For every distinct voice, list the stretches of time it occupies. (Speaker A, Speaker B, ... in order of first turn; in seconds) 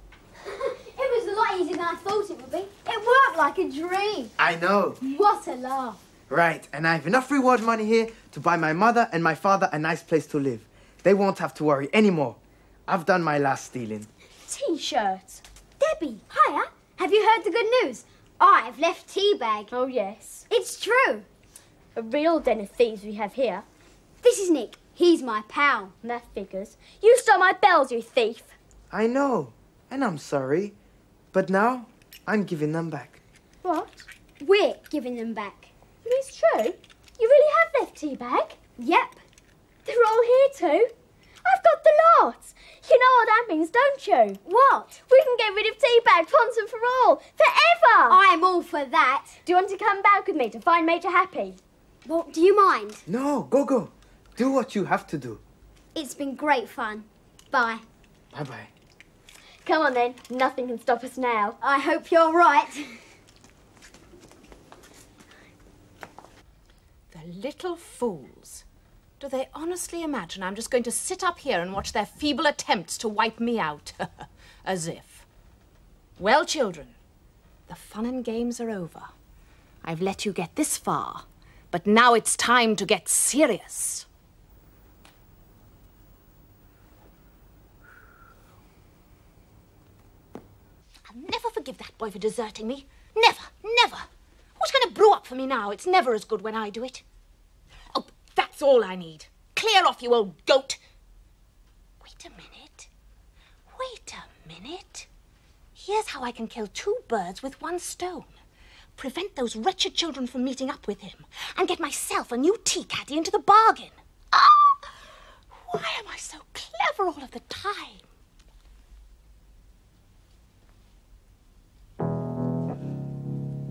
Speaker A: 0.4-4.3, 5.0-6.0, 15.8-19.7, 20.5-21.3, 24.2-25.9, 34.4-35.7, 38.8-39.2, 44.4-45.0, 48.1-49.3, 52.0-53.0, 55.9-57.8, 61.6-63.0
Speaker B: 4.4-5.0, 6.3-14.1, 28.9-30.8, 31.3-33.2, 53.1-55.4, 58.3-58.7
Speaker C: 14.5-15.4, 19.7-20.5, 21.9-23.6, 26.0-28.5, 33.6-34.1, 36.0-38.6, 39.8-40.9, 41.4-44.4, 45.0-48.2, 49.4-51.6, 59.6-61.6
Speaker D: 67.1-68.6, 69.2-75.2, 76.2-76.9, 77.7-79.1, 79.8-84.1, 91.1-94.0, 94.6-97.0, 97.9-100.8, 102.0-102.9, 103.7-105.1, 105.8-108.3, 109.0-114.9, 115.7-118.0